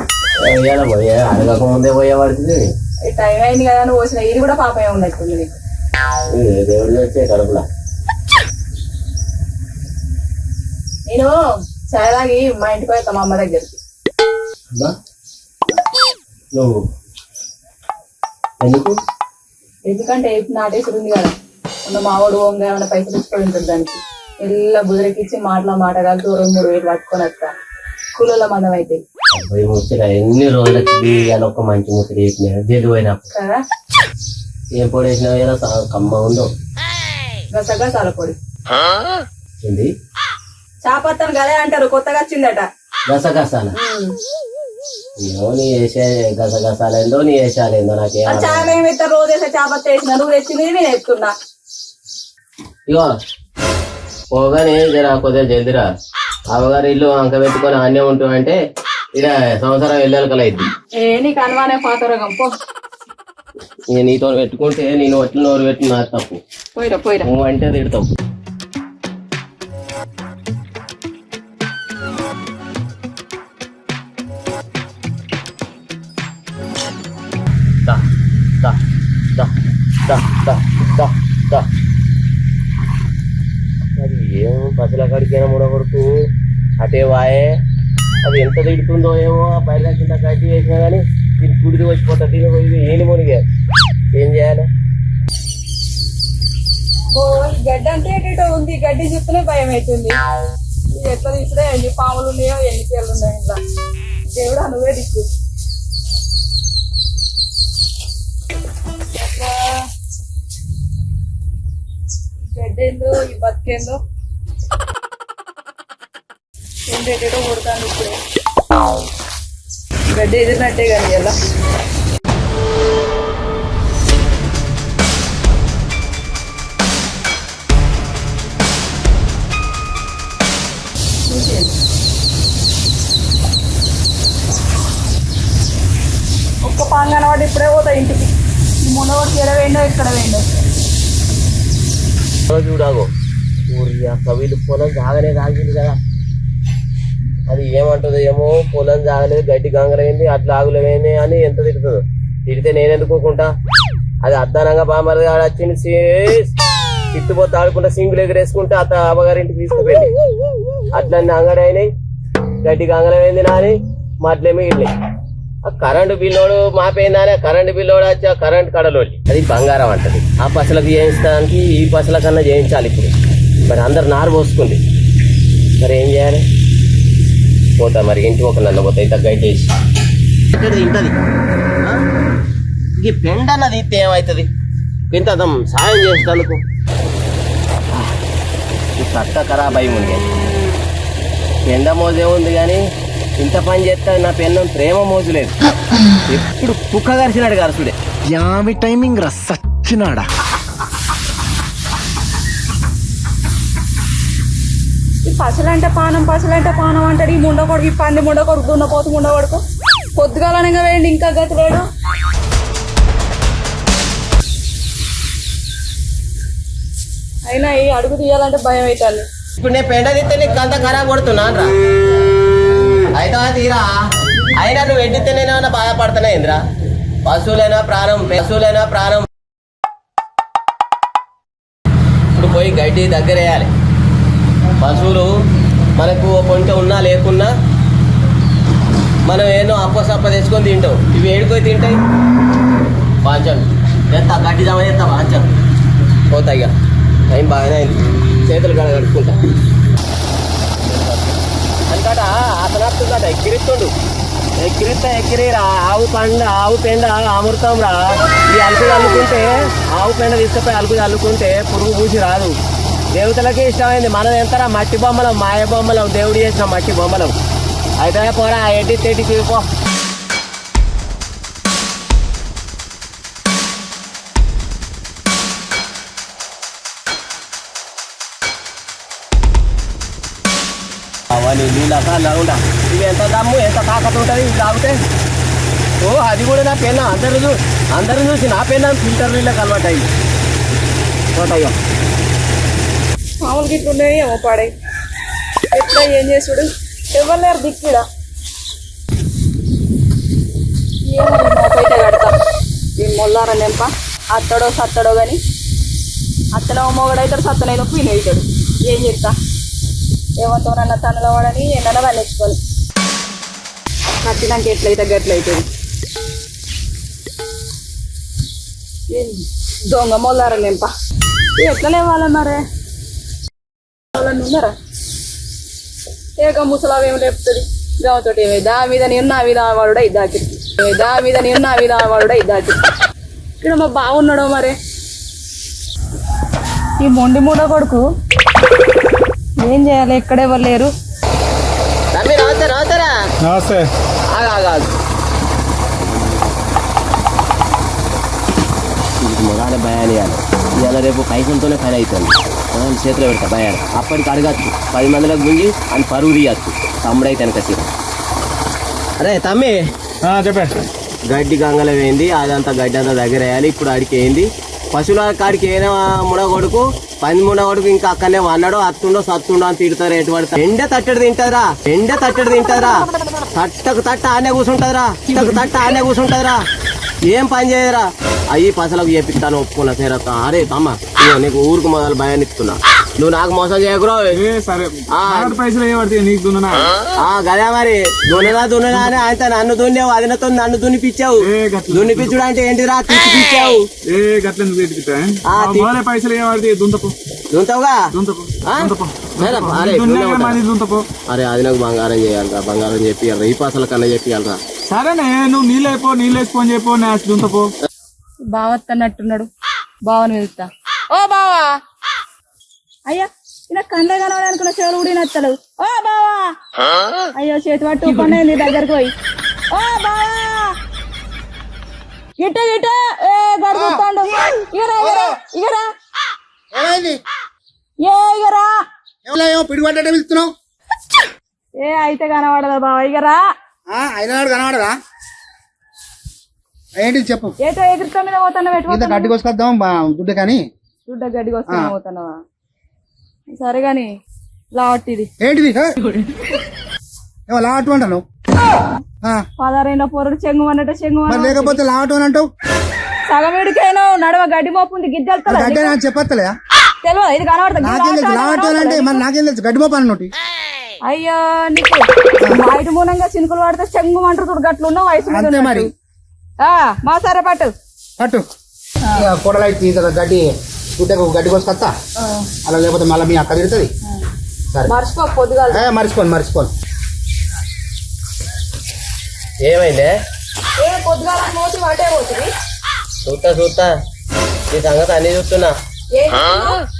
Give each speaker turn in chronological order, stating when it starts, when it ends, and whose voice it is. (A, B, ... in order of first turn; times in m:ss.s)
0:00.4-0:02.7 A
0:03.1-0:05.5 B
0:06.3-0:07.6 A
0:11.1-0:13.8 B
0:16.5-0:16.8 A
0:18.6-0:18.9 A
0:19.9-0:21.3 B
0:21.8-0:27.5 B
0:28.2-0:29.0 B
0:29.3-0:33.2 A
0:33.3-0:33.6 B
0:34.7-0:36.5 A
0:37.5-0:38.4 B
0:39.6-0:39.9 A
0:40.8-0:42.7 B
0:43.1-0:43.7 A
0:43.8-0:44.2 B
0:45.2-0:48.8 A
0:48.3-0:51.3 B
0:54.3-0:55.8 A
0:56.5-0:58.6 A
0:59.2-1:00.7 A
1:01.0-1:02.5 B
1:03.9-1:06.4 A
1:06.7-1:07.3 B
1:07.2-1:08.1 A
1:20.0-1:21.6 A
1:24.0-1:26.1 A
1:26.8-1:27.5 A
1:28.2-1:33.4 A
1:34.1-1:34.7 A
1:37.1-1:40.2 B
1:40.9-1:43.6 B
1:44.3-1:45.3 B
1:49.1-1:49.9 B
1:52.5-1:54.0 B
1:56.8-1:58.2 B
2:00.1-2:01.4 B
2:11.3-2:11.7 B
2:16.6-2:20.6 B
2:22.5-2:23.1 A
2:23.7-2:26.0 A
2:27.5-2:33.5 A
2:34.2-2:36.5 A
2:37.1-2:40.1 A
2:40.9-2:41.9 A
2:42.6-2:44.9 A
2:45.6-2:53.1 A
2:53.6-2:54.8 A
2:55.8-2:56.4 A
2:57.8-2:59.7 A
3:00.6-3:01.2 A
3:03.0-3:04.5 A
3:05.1-3:06.6 A
3:09.0-3:10.2 A
3:11.6-3:12.8 A
3:13.4-3:15.6 A
3:16.2-3:18.0 A
3:18.3-3:20.3 C
3:25.2-3:29.6 B
3:30.2-3:31.9 B
3:37.5-3:39.2 B
3:39.6-3:41.7 A
3:43.1-3:43.9 A
3:44.5-3:46.6 A
3:47.2-3:49.3 A
3:52.3-3:53.7 A
3:54.8-3:55.3 A
3:56.0-3:57.5 A
3:59.2-4:02.0 A
4:03.2-4:05.5 A
4:06.3-4:06.7 A
4:07.3-4:09.4 A
4:10.8-4:13.9 A
4:14.6-4:22.5 A
4:23.1-4:27.3 A
4:28.0-4:29.6 A
4:41.3-4:45.0 A
4:46.0-4:50.1 A
4:51.3-4:51.7 A
4:53.4-4:54.7 B
4:55.7-4:58.0 B
5:01.0-5:02.3 B
5:03.0-5:05.4 B
5:06.5-5:09.4 B
5:10.4-5:12.6 B
5:14.2-5:15.7 B
5:19.1-5:20.9 B
5:21.6-5:22.6 B
5:24.1-5:24.7 B
5:26.4-5:32.8 B
5:33.6-5:34.8 B
5:37.0-5:38.0 B
5:39.6-5:40.9 B
5:42.1-5:43.1 A
5:43.5-5:43.8 D
5:44.3-5:44.9 A
5:49.2-5:57.9 A
5:59.2-5:59.7 A
6:00.2-6:00.7 D
6:01.3-6:16.6 A
6:17.2-6:24.3 A
6:24.3-6:26.9 D
6:25.1-6:25.6 A
6:27.2-6:33.9 A
6:31.4-6:32.3 D
6:34.0-6:37.1 D
6:35.4-6:35.9 A
6:37.5-6:38.0 A
6:38.2-6:41.0 D
6:38.6-6:40.6 A
6:41.3-6:44.6 A
6:44.9-6:47.7 D
6:48.5-6:49.5 B
6:50.0-6:51.8 B
6:53.1-6:56.5 B
6:57.4-6:59.1 B
6:59.7-7:00.7 B
7:02.4-7:05.8 B
7:03.7-7:04.0 E
7:05.0-7:05.3 E
7:06.7-7:07.2 E
7:08.0-7:08.7 B
7:09.2-7:10.5 E
7:11.8-7:13.4 B
7:13.9-7:14.9 E
7:17.0-7:17.5 E
7:17.6-7:19.3 B
7:18.9-7:20.6 E
7:21.0-7:22.4 B
7:21.7-7:21.9 E
7:23.5-7:24.1 B
7:24.7-7:25.3 B
7:25.4-7:25.9 E
7:27.5-7:28.2 E
7:29.6-7:31.8 B
7:31.3-7:32.5 E
7:33.3-7:36.0 B
7:35.5-7:36.5 E
7:37.0-7:39.2 B
7:37.8-7:40.3 E
7:41.0-7:45.9 B
7:45.3-7:45.9 E
7:46.6-7:47.7 B
7:48.2-7:48.4 E
7:49.1-7:51.9 E
7:52.2-7:52.5 B
7:52.6-7:53.9 E
7:54.8-7:55.9 B
7:55.7-7:56.7 E
7:59.6-8:00.1 A
8:00.8-8:02.5 B
8:03.2-8:03.9 A
8:04.7-8:05.7 A
8:06.1-8:06.8 B